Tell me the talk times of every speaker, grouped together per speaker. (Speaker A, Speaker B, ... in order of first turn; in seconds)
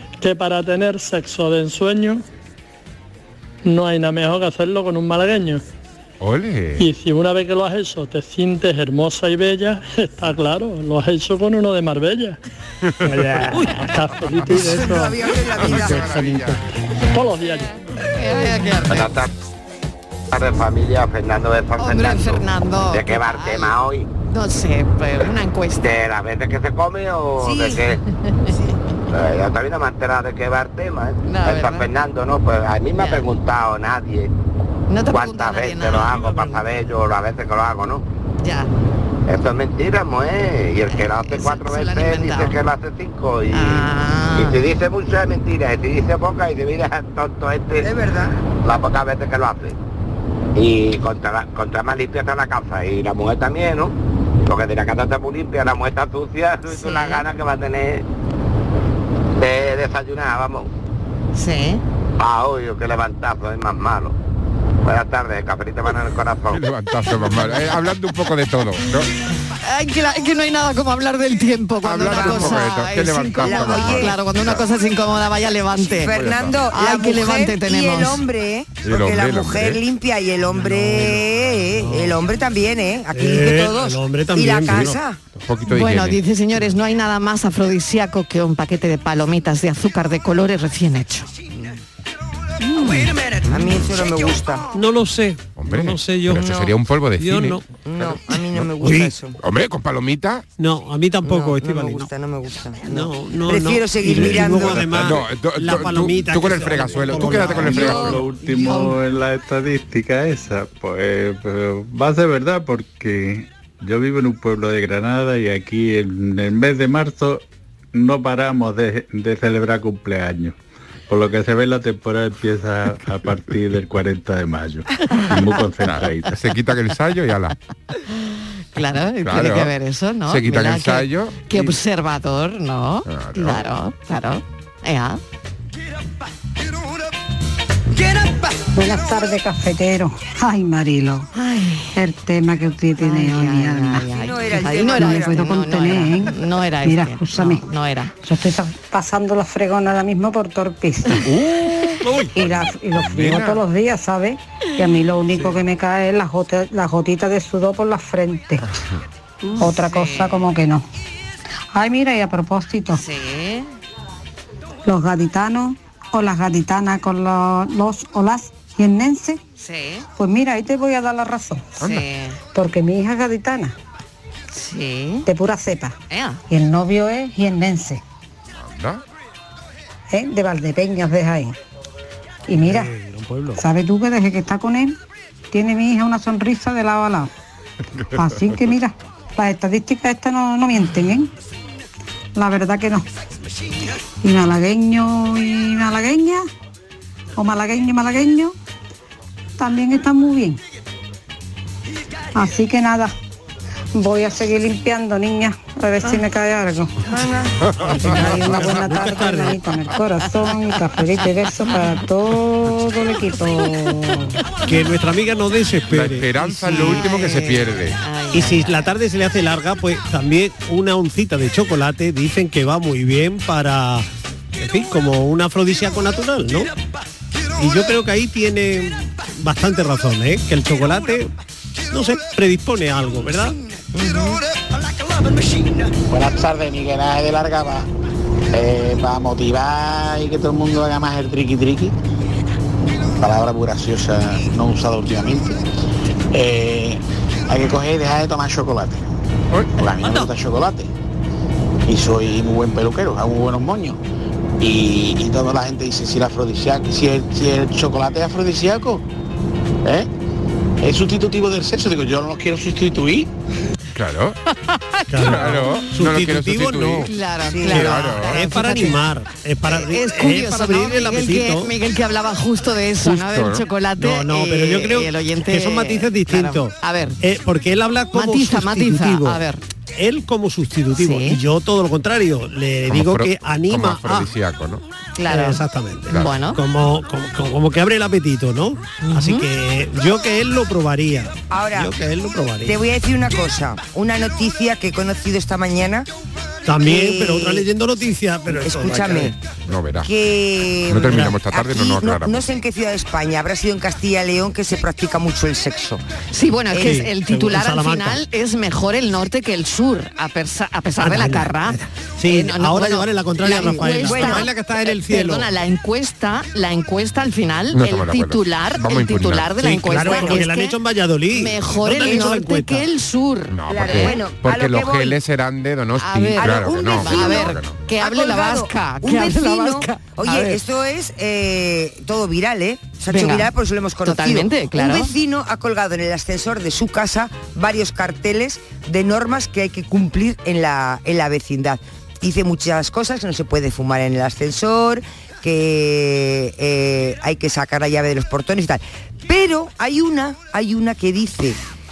Speaker A: 0.2-2.2, 3.6-5.6, 6.8-12.4, 13.0-17.7
Speaker B: 6.2-6.9, 15.4-16.6, 66.5-69.1, 71.8-74.7, 76.1-76.6, 78.8-79.8, 85.4-86.2, 95.6-98.7, 99.4-100.4, 104.5-108.2, 125.8-127.5, 129.2-129.7, 130.2-131.7, 133.1-133.7, 151.2-153.6, 171.8-172.0, 178.5-179.0, 207.6-208.7, 215.9-218.0, 263.9-264.4, 265.2-267.1, 267.6-268.4, 273.0-273.6, 282.9-284.8, 286.1-286.4, 299.7-300.1, 300.9-302.5, 317.7-319.5, 323.5-327.8
Speaker C: 14.5-16.1, 27.4-27.8, 47.8-48.3, 72.1-72.6, 73.4-74.2, 76.0-85.2, 93.0-94.7, 97.8-99.4, 101.2-105.1, 107.5-108.2, 144.1-145.5, 207.1-207.5, 234.0-234.4, 267.5-267.9, 291.5-291.9, 292.6-296.1, 296.8-297.6, 298.6-299.3, 300.0-306.0, 313.6-314.5, 323.7-325.2, 326.4-351.6
Speaker D: 18.1-19.1, 21.8-23.8, 24.3-26.0, 28.2-28.5, 31.2-31.9, 32.9-33.2, 34.9-36.6, 38.4-38.7, 40.9-42.6, 43.5-44.6, 56.7-57.2, 61.3-61.8, 69.6-76.1, 76.7-78.2, 85.7-91.3, 108.5-109.0, 128.7-135.2, 141.3-141.9, 143.0-148.1, 159.7-160.4, 162.9-163.7, 169.6-170.0, 171.8-172.4, 174.5-175.3, 176.1-176.4, 216.7-218.9, 267.1-269.0, 269.7-277.2, 278.1-279.6, 281.0-281.4, 285.1-286.6, 289.1-289.5, 306.3-320.8, 321.3-324.2, 326.0-330.6, 333.1-333.5, 334.0-335.1
Speaker E: 18.9-19.3, 20.3-24.1, 25.8-28.0, 29.1-34.3, 35.1-38.0, 39.3-47.9, 48.6-49.8, 50.5-53.9, 54.5-58.0, 59.4-60.7, 62.2-64.1, 64.8-66.6
Speaker F: 80.5-81.2, 81.8-82.2, 83.1-85.0, 94.7-96.5, 97.2-97.7, 98.8-99.1, 100.6-102.1, 102.8-108.1, 152.0-152.3, 182.6-183.6, 208.0-209.6, 214.7-217.0, 218.3-226.7, 227.6-231.3, 231.9-233.6, 265.1-267.1, 267.7-271.7, 274.0-279.4, 279.9-284.3, 285.3-292.8, 296.6-299.3, 301.0-301.3, 306.7-308.2, 311.0-315.5, 319.6-322.9
Speaker G: 107.5-120.6, 121.1-126.4
Speaker H: 138.7-141.3, 141.9-144.1, 144.8-147.6, 148.2-151.3, 152.3-158.7, 159.5-160.8, 161.7-163.0, 164.8-169.4, 170.2-171.8, 172.5-173.7, 175.2-175.9, 176.5-178.0, 180.1-181.6, 182.5-182.9, 183.6-185.0, 185.5-187.3, 188.1-191.3, 192.3-193.1, 194.2-196.5, 197.4-198.5, 199.6-200.6, 202.3-203.1, 203.9-207.0, 207.8-214.4
Speaker I: 236.1-237.9, 238.5-241.9, 243.2-245.6, 246.3-249.1, 249.8-250.9, 251.9-254.0, 254.6-259.0, 259.8-260.1, 260.8-263.3